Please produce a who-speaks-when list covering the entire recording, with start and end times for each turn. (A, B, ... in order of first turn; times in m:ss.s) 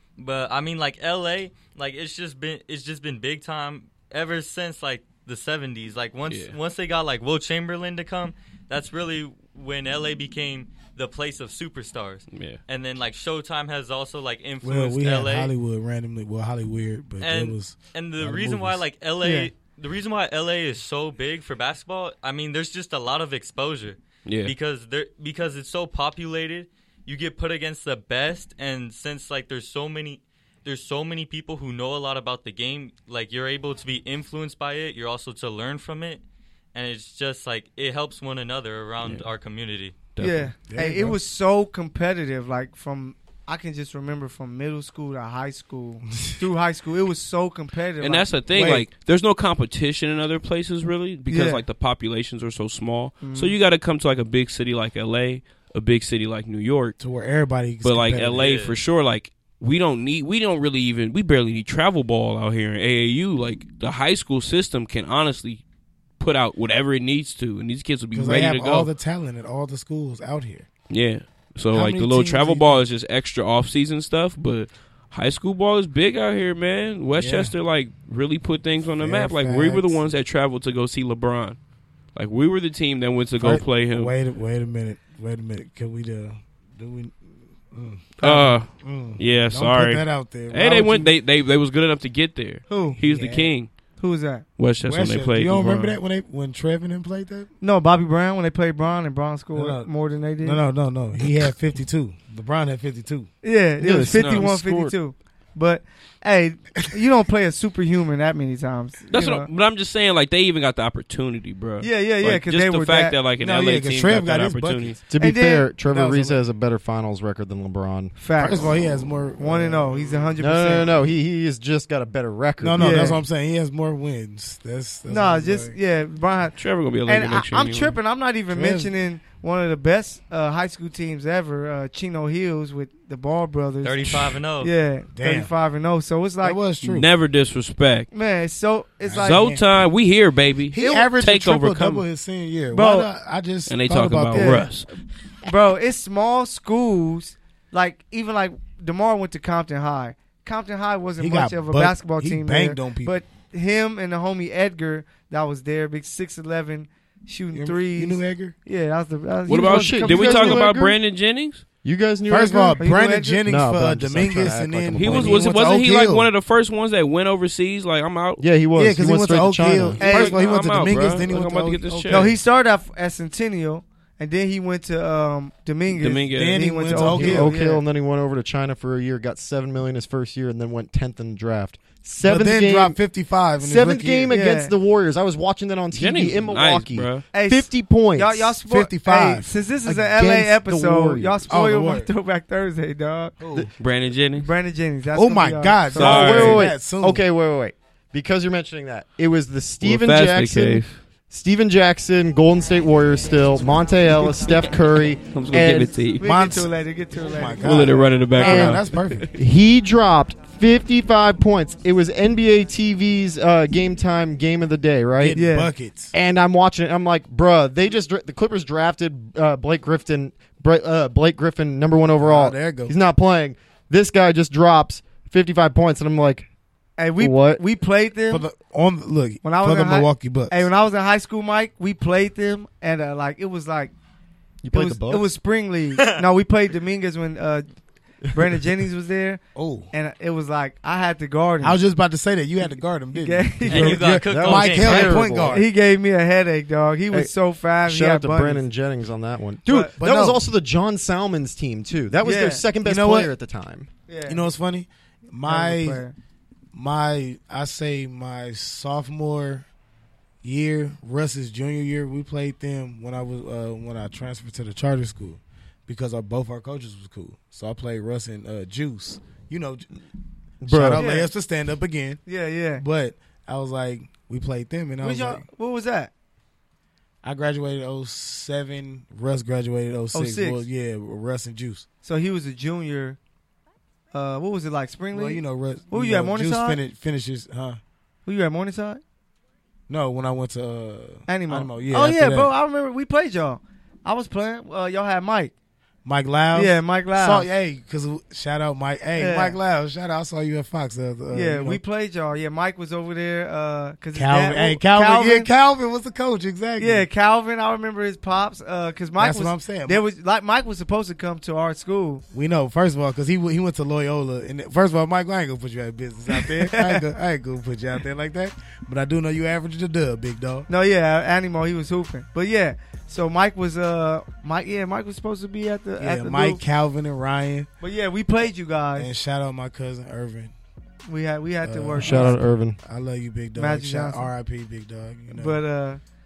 0:00.2-0:15.5 A
0:06.3-0:06.6 B
0:12.3-0:12.6 B
0:14.6-0:18.8 C
0:17.2-0:36.2 A
0:19.2-0:19.5 D
0:24.3-0:24.5 B
0:36.7-0:40.0 A
0:40.1-0:40.5 B
0:40.2-0:48.3 D
0:40.7-0:41.2 C
0:48.0-0:57.0 B
0:48.5-0:48.9 C
0:51.3-0:51.6 D
0:53.2-0:53.6 D
0:57.0-0:58.6 C
0:57.8-1:05.6 B
0:58.4-0:58.8 A
1:06.2-1:08.9 B
1:08.1-1:10.7 C
1:10.9-1:21.6 B
1:11.7-1:12.8 C
1:17.2-1:17.5 C
1:19.0-1:20.0 C
1:22.2-1:24.1 B
1:23.4-1:31.1 C
1:28.2-1:28.6 D
1:28.2-1:33.7 B
1:32.7-1:33.0 D
1:33.0-1:33.5 C
1:34.0-1:34.4 D
1:34.6-1:36.0 B
1:34.8-1:37.5 C
1:37.6-1:40.6 D
1:39.5-1:39.9 C
1:40.4-1:43.3 C
1:43.4-1:49.5 D
1:43.8-1:45.0 E
1:44.2-1:44.5 B
1:49.1-1:55.0 B
1:51.8-1:53.2 D
1:53.4-1:55.0 C
1:55.1-1:58.2 E
1:55.2-1:55.7 D
1:55.9-1:56.4 C
1:58.2-1:58.6 D
1:58.4-2:00.8 C
1:59.4-2:00.9 D
2:00.4-2:03.1 E
2:02.6-2:05.8 C
2:02.8-2:03.2 D
2:05.1-2:16.6 D
2:06.6-2:08.0 B
2:08.5-2:08.9 C
2:13.8-2:14.7 A
2:15.2-2:15.5 C
2:16.4-2:17.1 C
2:16.8-2:18.1 B
2:18.1-2:19.5 D
2:19.0-2:19.7 C
2:19.2-2:22.0 B
2:20.7-2:24.7 C
2:20.8-2:21.1 D
2:22.7-2:23.1 D
2:23.7-2:24.9 B
2:24.3-2:24.8 D
2:25.4-2:40.7 D
2:31.2-2:33.2 C
2:37.5-2:38.6 C
2:39.5-2:41.6 B
2:39.6-2:41.0 E
2:41.8-2:42.8 E
2:42.3-2:46.3 C
2:42.8-2:43.4 D
2:43.4-2:45.5 E
2:45.0-2:48.4 B
2:48.4-2:50.0 E
2:48.8-2:52.4 C
2:50.0-2:50.4 D
2:50.0-2:52.3 B
2:52.1-2:57.8 D
2:55.9-2:56.6 B
2:56.3-2:57.6 C
2:57.0-3:03.0 E
3:02.2-3:04.4 C
3:03.6-3:08.6 E
3:04.3-3:04.7 D
3:05.9-3:07.2 B
3:07.3-3:13.4 D
3:08.7-3:10.6 C
3:10.2-3:11.5 E
3:11.5-3:12.1 C
3:13.4-3:13.7 C
3:13.8-3:14.5 B
3:14.4-3:16.6 D
3:15.2-3:17.2 C
3:16.0-3:16.7 B
3:16.0-3:26.0 E
3:19.8-3:21.0 B
3:25.3-3:26.2 B
3:26.2-3:28.8 D
3:26.2-3:29.3 C
3:27.6-3:29.3 B
3:29.3-3:35.4 E
3:35.2-3:36.1 C
3:35.4-3:35.7 D
3:36.1-3:46.5 E
3:42.2-3:42.9 C
3:47.0-3:48.5 D
3:47.2-3:47.6 E
3:48.3-3:50.7 C
3:49.4-3:53.9 D
3:54.6-3:55.3 E
3:54.7-3:57.7 D
3:56.0-3:56.2 A
3:58.3-3:59.4 D
3:59.6-3:59.9 C
3:59.9-4:01.8 D
4:01.6-4:05.7 C
4:03.1-4:04.0 D
4:03.7-4:05.3 A
4:04.2-4:05.6 E
4:05.4-4:08.6 D
4:07.8-4:13.9 E
4:09.7-4:09.9 D
4:10.0-4:10.4 C
4:12.2-4:12.6 D
4:12.8-4:13.3 C
4:14.1-4:14.4 D
4:14.3-4:16.0 C
4:15.5-4:16.2 D
4:16.7-4:19.7 C
4:20.4-4:29.9 C
4:30.6-4:31.1 E
4:30.7-4:32.2 C
4:30.9-4:31.3 D
4:32.3-4:32.8 D
4:32.8-4:35.4 C
4:35.0-4:36.1 D
4:37.2-4:41.9 C
4:40.1-4:40.7 D
4:42.0-4:43.2 D
4:44.1-4:46.8 D
4:45.1-4:47.8 C
4:48.3-4:49.0 D
4:49.9-4:52.5 C
4:51.3-4:55.5 D
4:56.0-5:01.8 C
4:56.5-4:57.5 D
4:59.2-4:59.6 D
5:01.3-5:05.5 D
5:04.1-5:07.1 C
5:06.8-5:12.2 D
5:09.2-5:10.0 C
5:12.3-5:20.7 C
5:16.3-5:17.0 D
5:20.7-5:26.6 D
5:26.0-5:27.7 C
5:27.8-5:29.1 D
5:29.0-5:30.5 C
5:31.1-5:32.4 D
5:31.6-5:35.6 C
5:32.0-5:32.8 E
5:33.6-5:34.3 D
5:35.3-5:36.0 D